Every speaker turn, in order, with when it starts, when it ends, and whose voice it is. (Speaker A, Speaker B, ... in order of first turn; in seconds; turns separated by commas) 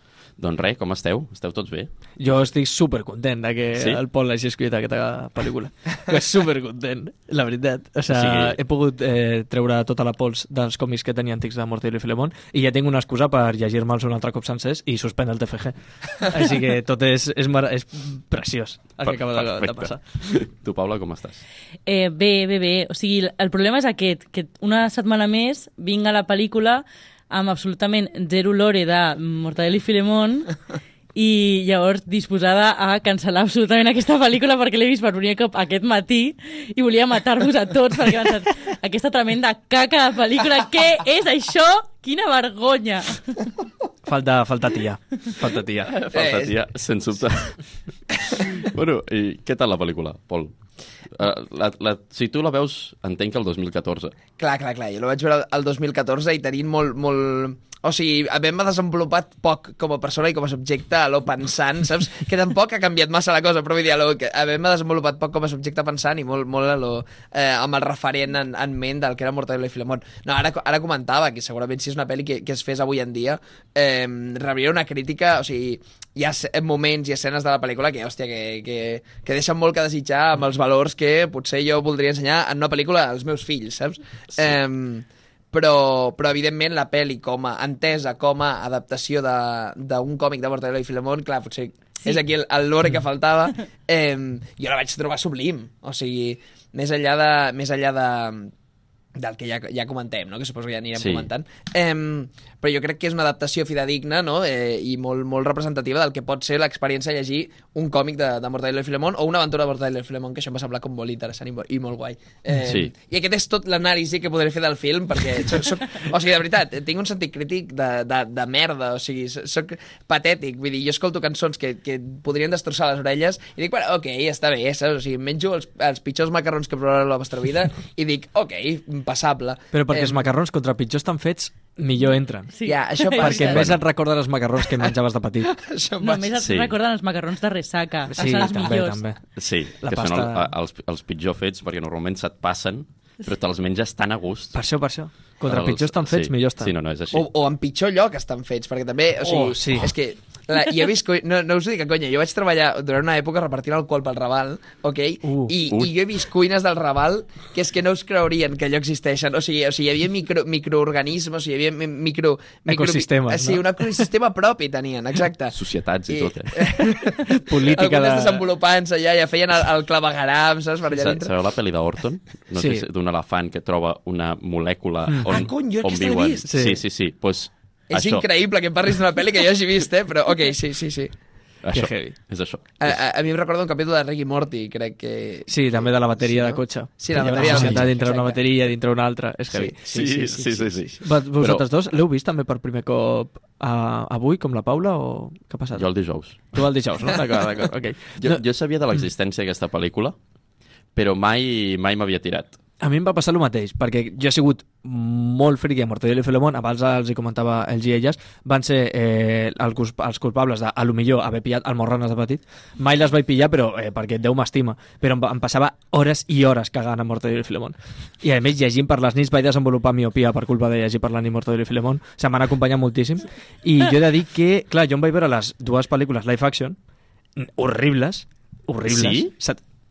Speaker A: 0.4-1.9, Speaker B: 2.2-20.0, Speaker A: 3.8-4.0, Speaker A: 8.1-8.6, Speaker A: 19.0-21.4, Speaker C: 21.9-30.6, Speaker C: 31.1-43.2, Speaker B: 44.1-45.9, Speaker A: 45.8-47.6, Speaker D: 46.1-46.5, Speaker A: 48.4-50.6, Speaker A: 51.1-54.2, Speaker D: 54.4-98.5, Speaker D: 99.2-130.3, Speaker A: 101.0-101.3, Speaker A: 112.6-112.9, Speaker B: 129.7-132.5, Speaker C: 132.5-133.6, Speaker D: 132.7-133.8, Speaker B: 133.2-135.5, Speaker A: 133.5-133.8, Speaker D: 135.4-136.4, Speaker C: 136.0-139.0, Speaker A: 136.4-136.7, Speaker B: 138.1-139.2, Speaker A: 139.4-144.6, Speaker B: 139.8-140.5, Speaker B: 144.5-146.7, Speaker A: 145.4-147.3, Speaker D: 147.1-165.6, Speaker B: 149.2-149.9, Speaker B: 155.2-155.6, Speaker A: 155.7-155.9, Speaker B: 162.7-164.1, Speaker A: 165.5-166.6, Speaker D: 166.1-171.3, Speaker B: 167.2-168.4, Speaker A: 170.9-178.3, Speaker B: 172.6-172.9, Speaker B: 175.1-175.4, Speaker D: 175.3-176.5, Speaker B: 176.5-176.8, Speaker D: 177.9-181.1, Speaker A: 181.6-183.0, Speaker B: 181.7-182.2, Speaker D: 182.8-188.4, Speaker B: 185.5-190.1, Speaker A: 187.4-187.9, Speaker D: 189.5-190.7, Speaker A: 189.9-191.7, Speaker B: 191.0-195.9, Speaker A: 195.7-196.6, Speaker B: 196.5-198.4, Speaker A: 198.2-200.2, Speaker A: 200.9-202.6, Speaker B: 202.8-226.8, Speaker B: 227.4-229.6, Speaker A: 228.9-229.3